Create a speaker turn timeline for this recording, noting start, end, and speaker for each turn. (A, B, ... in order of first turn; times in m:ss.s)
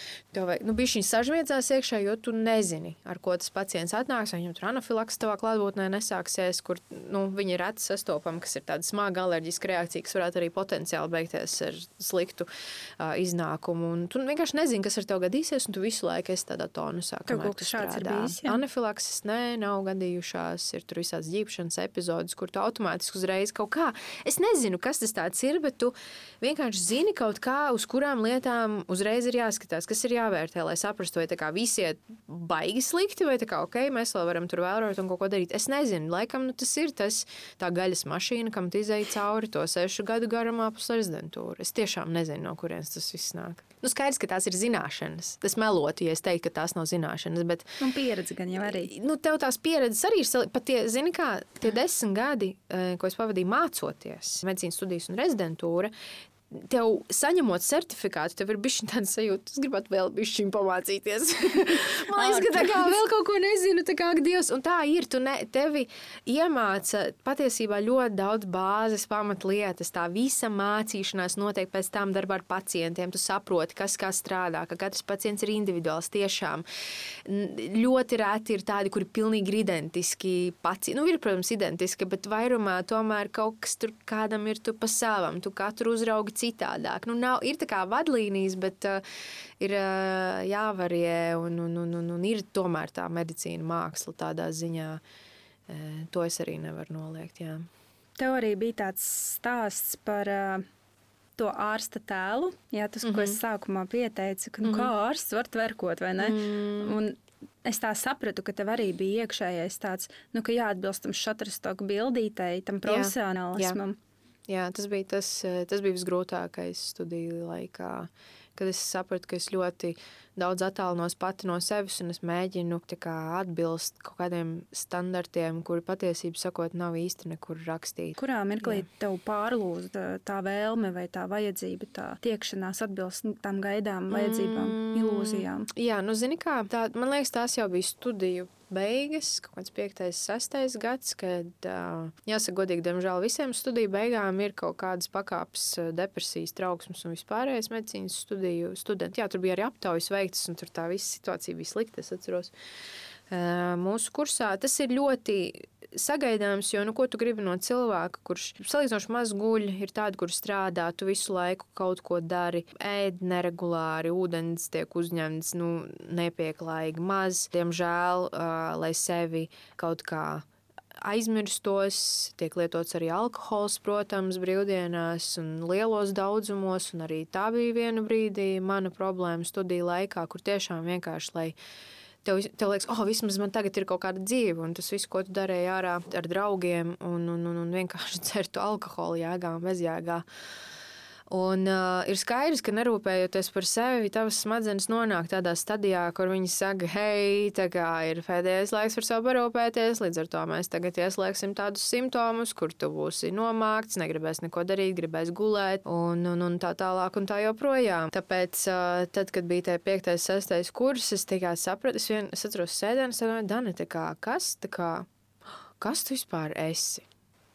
0:00.3-0:12.5 A
0:13.0-0:47.8 A
0:17.3-0:18.6 B
0:47.8-0:48.9 B
0:48.6-0:55.9 A
0:56.5-1:16.6 A
1:02.2-1:02.9 B
1:17.2-1:29.0 A
1:29.6-1:35.0 A
1:35.7-1:37.6 A
1:38.2-1:40.6 B
1:41.4-1:54.0 B
1:43.0-1:43.4 A
1:44.6-1:44.9 A
1:46.2-1:47.0 A
1:52.9-1:53.8 A
1:54.5-2:08.8 A
2:08.2-2:15.7 B
2:14.1-2:32.5 A
2:33.3-2:50.5 A
2:51.0-3:01.6 A
3:02.2-3:10.2 A
3:11.3-3:35.1 A
3:35.8-3:37.1 A